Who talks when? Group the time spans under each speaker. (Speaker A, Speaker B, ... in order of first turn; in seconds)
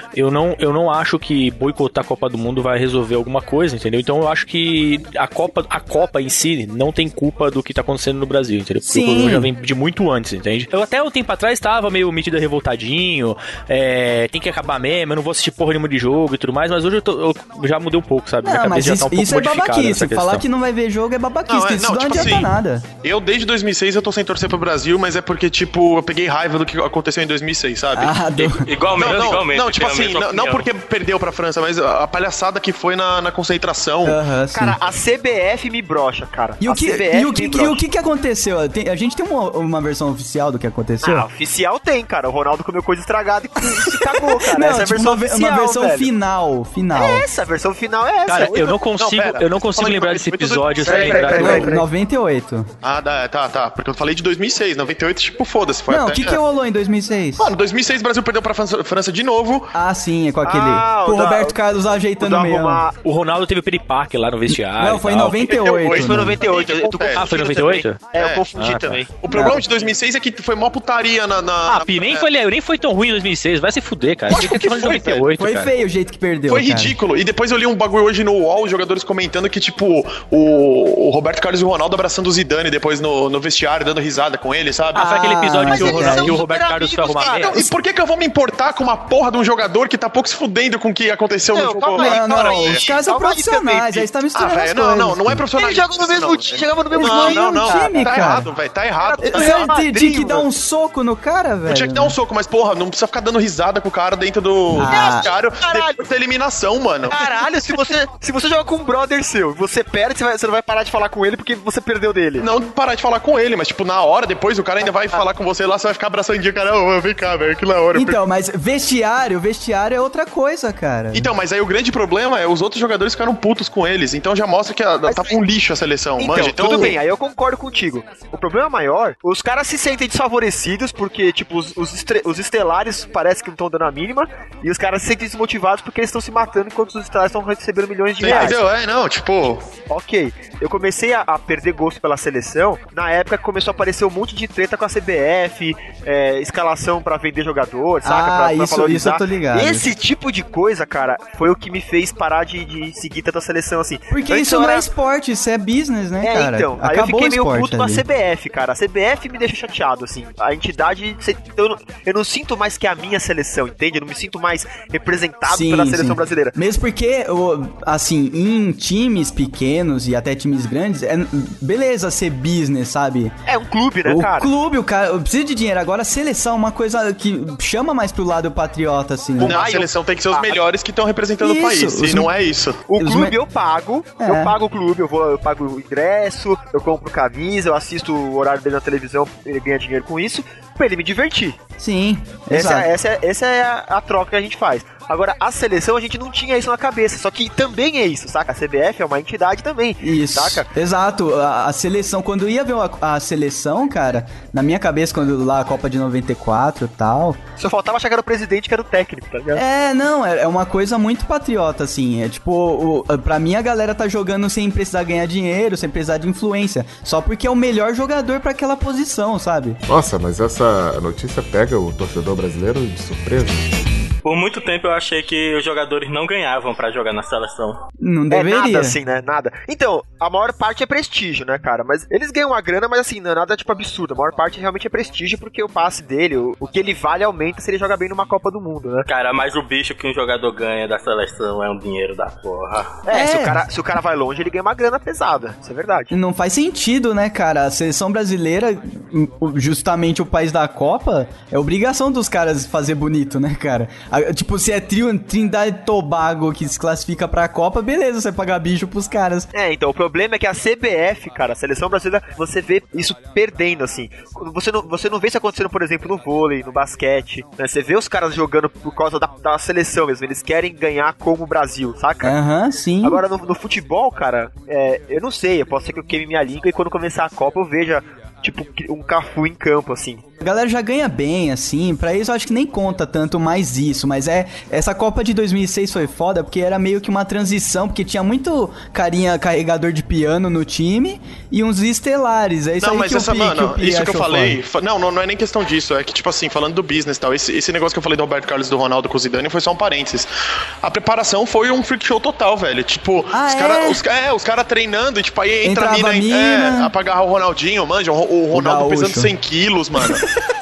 Speaker A: 0.1-20.4, 48.3-51.7, 63.0-65.5, 67.1-69.0, 71.7-75.8, 85.0-87.6
Speaker B: 8.8-9.5, 18.4-22.9, 27.9-28.7, 34.0-34.8, 36.6-41.3, 43.9-47.2, 51.3-52.7, 55.9-57.5, 59.7-62.8, 64.7-66.4, 69.3-69.6, 75.4-77.0, 85.0-86.3, 91.9-95.5, 96.9-98.5, 99.2-102.2, 104.7-105.3, 117.9-121.3, 148.1-149.9, 154.1-158.0, 165.5-173.3, 174.1-179.6, 181.4-182.3, 183.0-183.3, 184.2-184.5, 191.8-192.9, 200.0-207.4, 209.6-219.8, 228.0-229.0, 243.1-243.6, 246.1-259.5, 272.2-273.2, 280.4-294.6, 303.3-304.0, 305.6-306.9, 308.5-309.3
Speaker C: 21.5-22.5, 23.0-28.1, 28.9-34.2, 49.0-51.8, 52.8-56.4, 57.4-59.7, 65.5-67.3, 68.2-72.3, 74.3-75.2, 76.5-85.1, 87.4-92.9, 94.3-99.8, 101.7-107.3, 112.4-118.2, 121.1-127.0, 138.2-139.7, 179.4-182.8, 292.8-300.3, 300.8-310.2
Speaker D: 28.4-30.7, 224.2-227.8, 239.1-243.0
Speaker E: 34.5-37.8, 41.0-46.1, 46.9-49.4, 50.8-51.8, 60.4-61.6, 62.2-63.0, 65.9-69.0, 85.7-87.7, 91.5-94.1, 95.5-98.2, 99.0-100.5, 104.8-106.0, 107.1-112.5, 125.1-125.3, 126.2-138.6, 139.9-154.9, 156.2-166.6, 173.5-174.5, 179.4-180.6, 182.9-191.6, 192.5-200.7, 207.6-209.6, 228.3-239.1, 243.1-246.1, 259.5-272.4, 273.0-280.2
Speaker F: 219.9-223.7